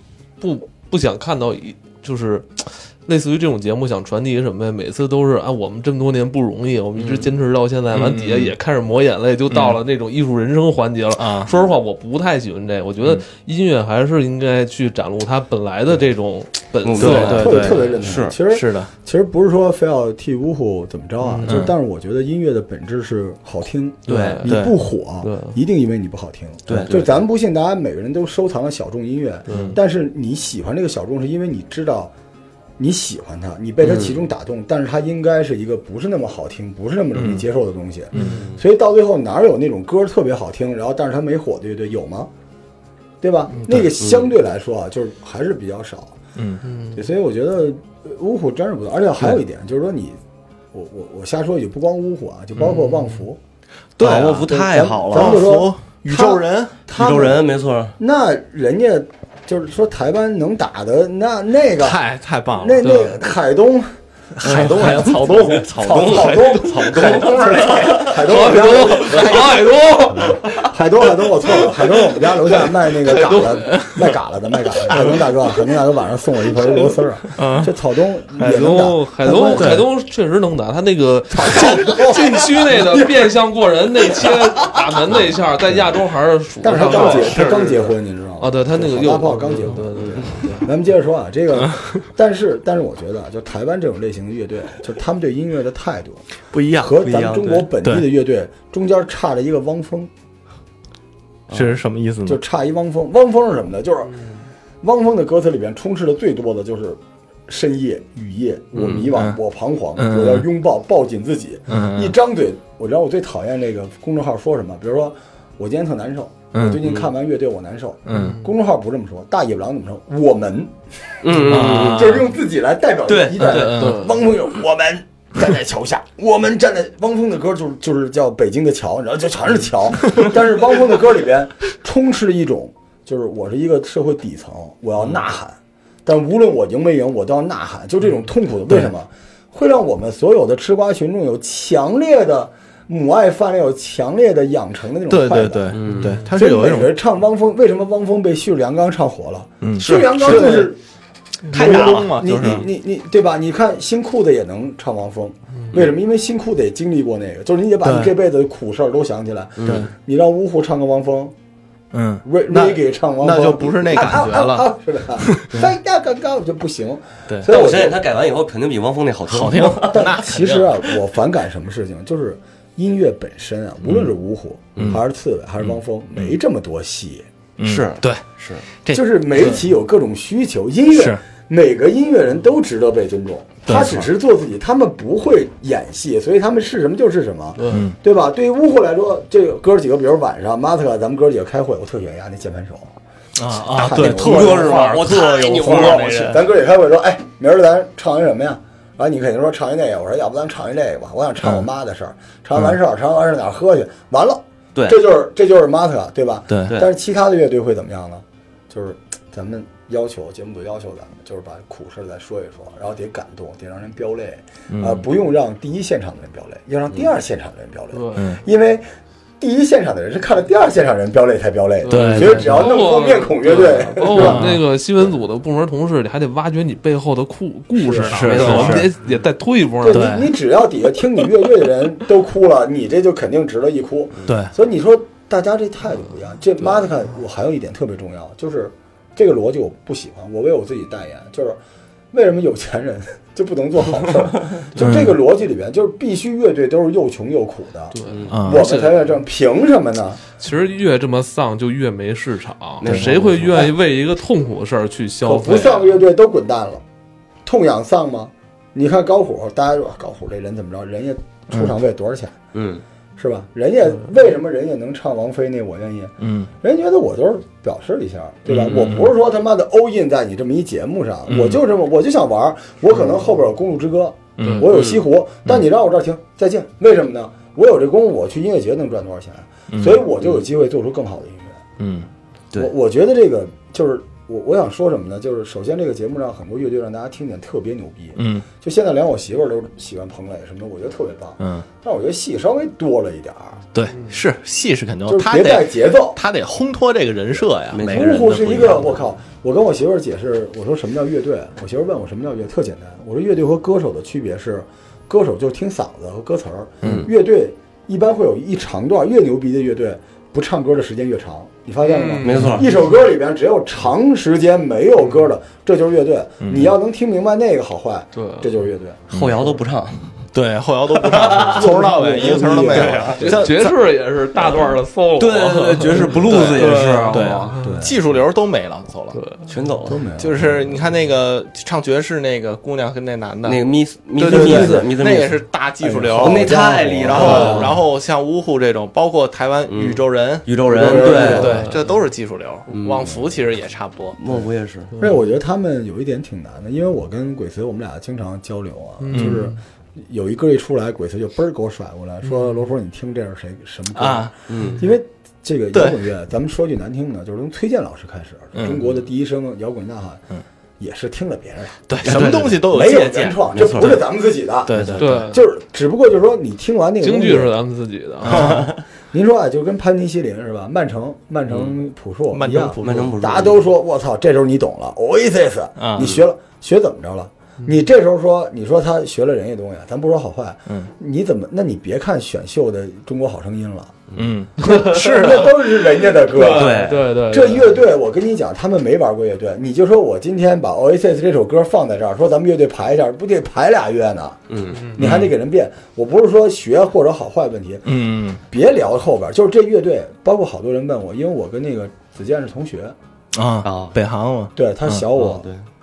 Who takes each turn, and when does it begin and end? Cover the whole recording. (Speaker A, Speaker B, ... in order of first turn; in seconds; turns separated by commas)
Speaker A: 0.4-17.9, Speaker B: 7.0-7.3, Speaker C: 7.9-8.5, Speaker C: 9.5-9.8, Speaker C: 11.2-11.5, Speaker B: 16.8-18.4, Speaker C: 17.0-18.9, Speaker D: 17.2-32.1, Speaker A: 21.2-21.6, Speaker C: 21.4-21.7, Speaker B: 24.1-24.4, Speaker A: 24.1-24.6, Speaker C: 24.4-24.7, Speaker A: 25.2-25.6, Speaker B: 26.7-27.1, Speaker A: 29.5-29.8, Speaker C: 29.5-29.8, Speaker D: 32.8-42.3, Speaker B: 33.8-34.2, Speaker C: 37.1-37.4, Speaker C: 38.1-38.4, Speaker A: 38.1-38.4, Speaker B: 38.2-38.6, Speaker D: 43.2-46.2, Speaker B: 44.0-44.3, Speaker C: 46.4-46.6, Speaker A: 46.6-47.0, Speaker D: 46.9-50.2, Speaker D: 50.7-53.4, Speaker A: 52.7-53.2, Speaker C: 54.0-56.8, Speaker B: 54.0-55.4, Speaker D: 54.4-57.5, Speaker B: 56.9-58.0, Speaker D: 58.0-62.0, Speaker C: 61.8-62.9, Speaker D: 62.5-69.5, Speaker A: 62.8-63.2, Speaker C: 64.4-67.5, Speaker B: 64.8-68.2, Speaker A: 67.8-70.6, Speaker D: 70.1-79.9, Speaker A: 73.0-73.7, Speaker C: 73.5-74.0, Speaker C: 77.3-77.7, Speaker A: 78.4-87.7, Speaker C: 78.4-78.7, Speaker C: 79.6-79.8, Speaker D: 81.3-83.3, Speaker D: 85.7-85.9, Speaker D: 86.6-96.2, Speaker C: 86.8-87.8, Speaker A: 88.4-90.7, Speaker B: 90.0-90.5, Speaker C: 96.5-97.0, Speaker D: 96.8-100.1, Speaker B: 97.0-97.7, Speaker C: 97.8-98.1, Speaker B: 101.5-101.8, Speaker C: 101.5-102.4, Speaker D: 102.3-104.2, Speaker D: 104.8-150.8, Speaker B: 108.8-109.1, Speaker C: 109.0-109.4, Speaker C: 110.0-110.5, Speaker C: 111.7-112.1, Speaker C: 116.5-116.8, Speaker B: 116.8-117.1, Speaker C: 118.1-118.4, Speaker A: 118.1-118.5, Speaker B: 121.2-122.1, Speaker C: 121.3-122.3, Speaker B: 123.1-123.7, Speaker C: 123.4-124.1, Speaker A: 123.5-124.3, Speaker C: 145.1-146.9, Speaker B: 145.7-146.2, Speaker A: 145.9-146.2, Speaker C: 149.6-150.7, Speaker B: 149.8-150.7, Speaker C: 151.5-152.7, Speaker D: 151.5-161.3, Speaker B: 151.6-152.1, Speaker C: 157.8-158.1, Speaker B: 159.6-159.9, Speaker C: 159.6-159.9, Speaker C: 161.9-165.6, Speaker D: 162.2-168.0, Speaker B: 167.5-170.0, Speaker C: 169.3-171.0, Speaker D: 169.6-177.3, Speaker C: 175.6-176.4, Speaker C: 177.6-178.2, Speaker B: 177.6-178.7, Speaker C: 178.8-179.6, Speaker D: 178.9-192.9, Speaker C: 180.9-181.2, Speaker C: 183.7-184.1, Speaker A: 187.6-187.9, Speaker C: 187.7-188.0, Speaker C: 193.4-196.2, Speaker D: 193.6-218.8, Speaker B: 194.0-196.4, Speaker C: 206.5-206.8, Speaker C: 214.7-215.0, Speaker A: 217.9-218.3, Speaker D: 219.4-224.6, Speaker A: 221.8-230.2, Speaker C: 221.9-222.6, Speaker B: 221.9-222.5, Speaker C: 224.1-224.6, Speaker D: 227.7-228.8, Speaker C: 228.0-228.9, Speaker B: 228.2-229.2, Speaker D: 229.8-241.6, Speaker C: 229.9-230.3, Speaker C: 234.3-234.5, Speaker D: 242.1-250.2, Speaker C: 244.8-245.2, Speaker A: 247.9-249.1, Speaker B: 248.1-248.3, Speaker C: 248.3-248.7, Speaker A: 250.4-255.9, Speaker B: 252.8-253.7, Speaker C: 252.9-253.1, Speaker D: 255.2-256.8, Speaker D: 257.4-262.4, Speaker B: 262.5-262.8, Speaker D: 263.2-281.6, Speaker C: 266.2-266.5, Speaker C: 268.5-269.1, Speaker C: 271.3-271.6, Speaker C: 274.4-274.8, Speaker A: 274.4-274.7, Speaker B: 274.7-275.0, Speaker C: 279.7-280.0, Speaker C: 281.8-282.1, Speaker D: 282.5-293.6, Speaker C: 288.2-288.5, Speaker C: 291.4-291.7, Speaker C: 293.7-298.9, Speaker A: 293.9-294.2, Speaker D: 295.1-296.2, Speaker B: 297.7-298.9, Speaker D: 297.9-319.1, Speaker C: 306.8-307.1, Speaker B: 306.8-307.1, Speaker A: 311.8-312.9, Speaker B: 312.2-312.7, Speaker C: 316.4-316.8, Speaker A: 318.1-318.5, Speaker B: 319.1-320.3, Speaker C: 319.1-319.4, Speaker C: 320.3-323.8, Speaker B: 320.9-321.7, Speaker D: 321.4-323.3, Speaker B: 322.7-323.3, Speaker A: 323.2-327.8, Speaker B: 325.2-327.5, Speaker C: 325.9-329.2, Speaker D: 327.6-328.2, Speaker A: 329.1-329.5, Speaker B: 329.5-330.0, Speaker D: 329.9-330.8, Speaker C: 330.2-333.6, Speaker B: 333.4-335.4, Speaker C: 334.2-344.2, Speaker D: 334.2-335.0, Speaker D: 335.8-337.8, Speaker B: 336.2-337.8, Speaker A: 337.2-337.6, Speaker B: 339.7-341.7, Speaker D: 340.7-341.7, Speaker A: 341.2-342.0, Speaker B: 342.7-343.3, Speaker B: 344.2-344.9, Speaker A: 344.9-345.2, Speaker D: 345.0-360.2, Speaker A: 349.0-349.6, Speaker C: 349.1-349.4, Speaker A: 352.2-352.6, Speaker C: 353.9-354.3, Speaker B: 354.5-354.9, Speaker C: 355.7-356.0, Speaker C: 358.6-358.9, Speaker D: 360.8-367.5, Speaker C: 361.9-363.9, Speaker B: 362.0-362.6, Speaker B: 363.5-364.0, Speaker C: 364.7-365.3, Speaker B: 364.7-365.1, Speaker A: 365.0-365.4, Speaker A: 367.0-368.6, Speaker C: 368.3-368.7, Speaker D: 368.3-384.0, Speaker B: 371.5-371.7, Speaker C: 372.3-373.2, Speaker B: 372.8-373.6, Speaker C: 375.8-376.2, Speaker B: 384.1-384.4, Speaker C: 384.2-385.6, Speaker A: 384.6-385.3, Speaker D: 384.6-394.4, Speaker A: 386.2-387.8, Speaker B: 386.5-387.1, Speaker B: 394.5-394.9, Speaker A: 394.7-395.0, Speaker D: 394.9-398.0, Speaker C: 395.0-395.3, Speaker C: 397.9-398.4, Speaker D: 398.5-403.0, Speaker C: 403.4-405.1, Speaker B: 403.6-404.0, Speaker D: 404.6-405.5, Speaker B: 405.2-405.6